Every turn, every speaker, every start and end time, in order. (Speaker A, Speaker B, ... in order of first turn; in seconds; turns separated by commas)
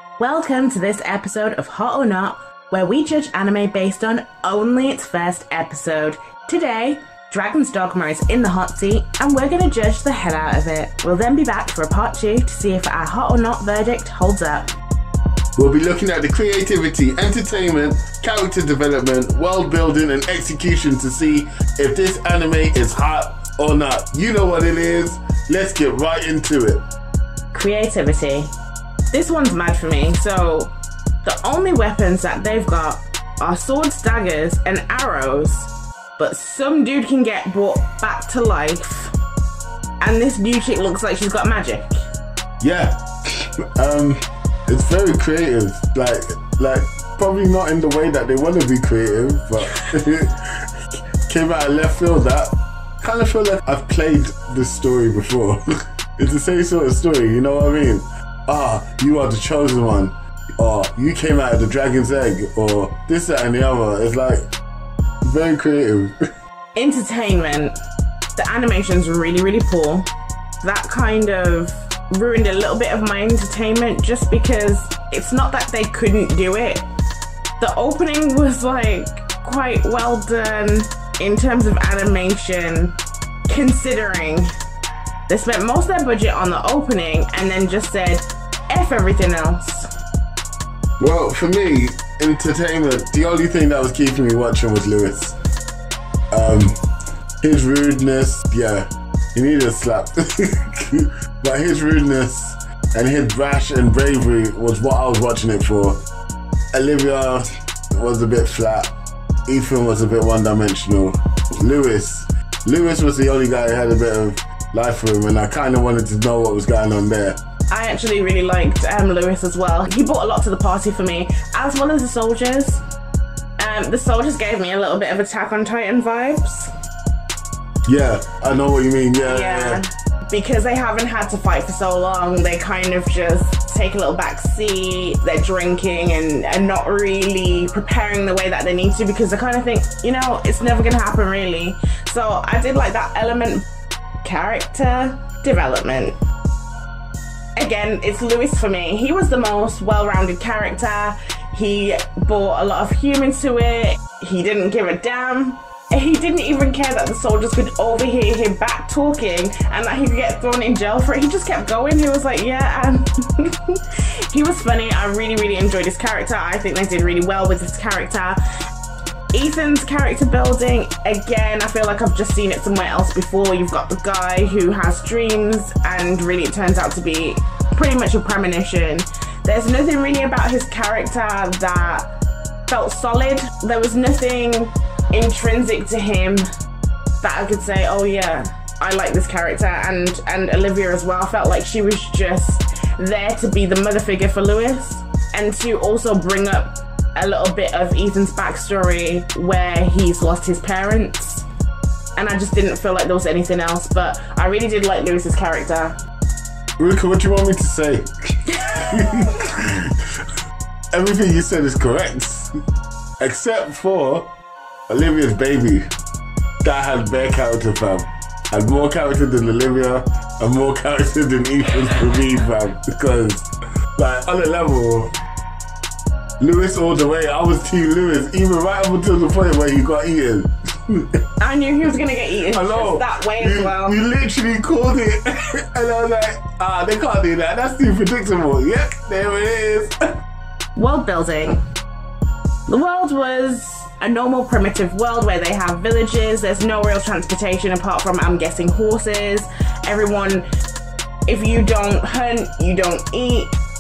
Speaker A: 0.2-14.7, Speaker B: 15.6-26.8, Speaker A: 27.5-28.5, Speaker A: 29.1-39.1, Speaker A: 40.0-41.9, Speaker B: 42.6-50.7, Speaker B: 51.3-55.6, Speaker B: 56.2-64.4, Speaker B: 65.2-66.1, Speaker A: 66.7-67.7, Speaker A: 68.3-70.1, Speaker A: 70.6-76.9, Speaker A: 77.6-83.0, Speaker A: 83.5-84.5, Speaker A: 85.3-89.9, Speaker B: 91.0-95.3, Speaker B: 96.3-96.8, Speaker B: 97.4-106.0, Speaker B: 106.7-108.9, Speaker B: 109.5-117.4, Speaker A: 117.7-122.8, Speaker A: 123.6-126.7, Speaker B: 127.8-129.8, Speaker A: 129.2-143.7, Speaker A: 144.2-146.2, Speaker A: 147.6-168.4, Speaker A: 169.3-182.1, Speaker A: 182.7-186.5, Speaker A: 187.2-201.4, Speaker A: 202.2-206.0, Speaker B: 206.8-210.3, Speaker A: 208.7-209.3, Speaker B: 210.9-212.5, Speaker B: 213.2-214.3, Speaker B: 214.9-215.9, Speaker B: 216.6-225.1, Speaker B: 226.4-231.2, Speaker A: 231.4-234.0, Speaker B: 232.5-239.9, Speaker A: 240.7-241.6, Speaker A: 242.7-250.4, Speaker A: 251.3-253.5